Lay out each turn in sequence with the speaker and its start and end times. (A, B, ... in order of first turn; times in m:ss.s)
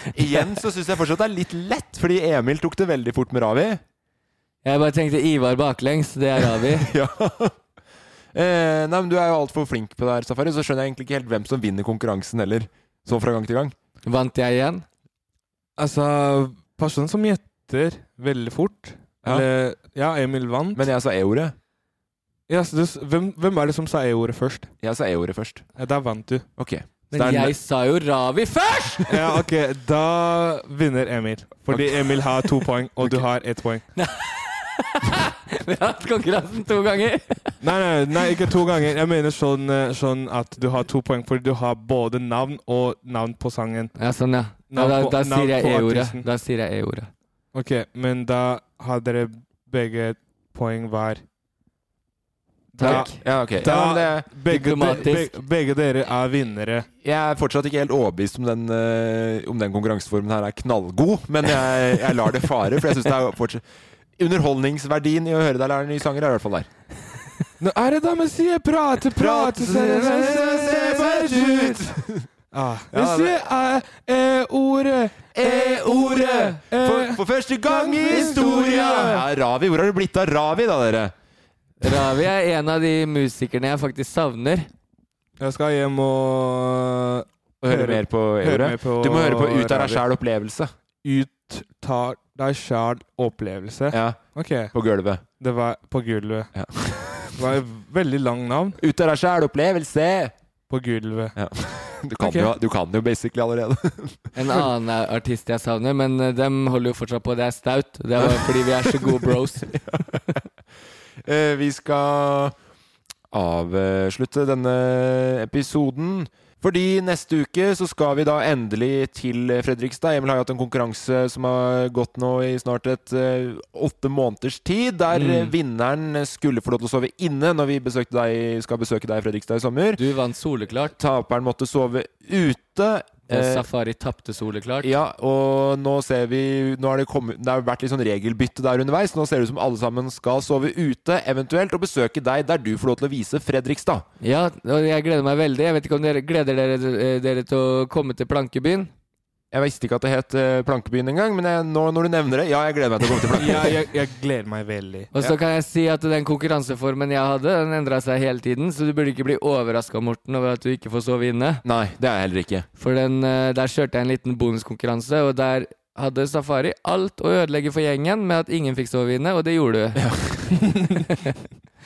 0:00.1-0:03.8 A
0:04.6-0:06.9 B
0:06.4-0:07.6 A
0:08.3-0:13.8 A
0:14.0-0:14.8 B
0:15.8-0:20.8 C
0:20.8-0:21.6 A
0:22.5-0:24.7 C
0:24.8-0:25.7 A
0:25.8-0:26.5 C
0:26.6-0:27.5 A
0:27.1-0:29.2 B
0:29.1-0:33.8 C
0:31.7-0:32.2 A
0:34.0-0:37.6 B
0:37.6-0:43.9 C
0:44.0-0:47.1 B
0:44.7-0:46.2 C
0:47.5-0:51.2 C
0:52.7-0:56.9 C
0:52.8-0:53.8 B
0:52.8-0:54.3 A
0:54.4-0:55.4 B
0:57.0-1:03.6 A
1:04.2-1:06.7 A
1:07.6-1:11.9 C
1:09.2-1:12.3 A
1:12.5-1:19.2 C
1:12.9-1:13.4 A
1:15.4-1:21.1 A
1:18.1-1:19.2 B
1:21.8-1:24.7 B
1:25.4-1:30.0 C
1:27.6-1:30.7 A
1:31.0-1:34.7 C
1:33.9-1:35.2 A
1:35.4-1:36.5 C
1:36.6-1:37.3 A
1:37.3-1:38.8 C
1:38.8-1:40.3 A
1:40.7-1:41.4 C
1:41.4-1:44.2 A
1:42.2-1:42.5 C
1:44.4-1:49.8 B
1:48.2-1:50.2 A
1:51.2-1:52.6 A
1:53.3-2:10.0 A
2:05.1-2:05.5 B
2:10.0-2:11.0 B
2:11.0-2:13.7 A
2:13.3-2:14.9 B
2:14.8-2:24.1 A
2:24.2-2:28.9 B
2:29.5-2:33.8 A
2:33.4-2:35.1 C
2:35.1-2:41.6 B
2:41.6-2:42.7 A
2:42.8-2:50.0 B
2:50.0-2:50.6 A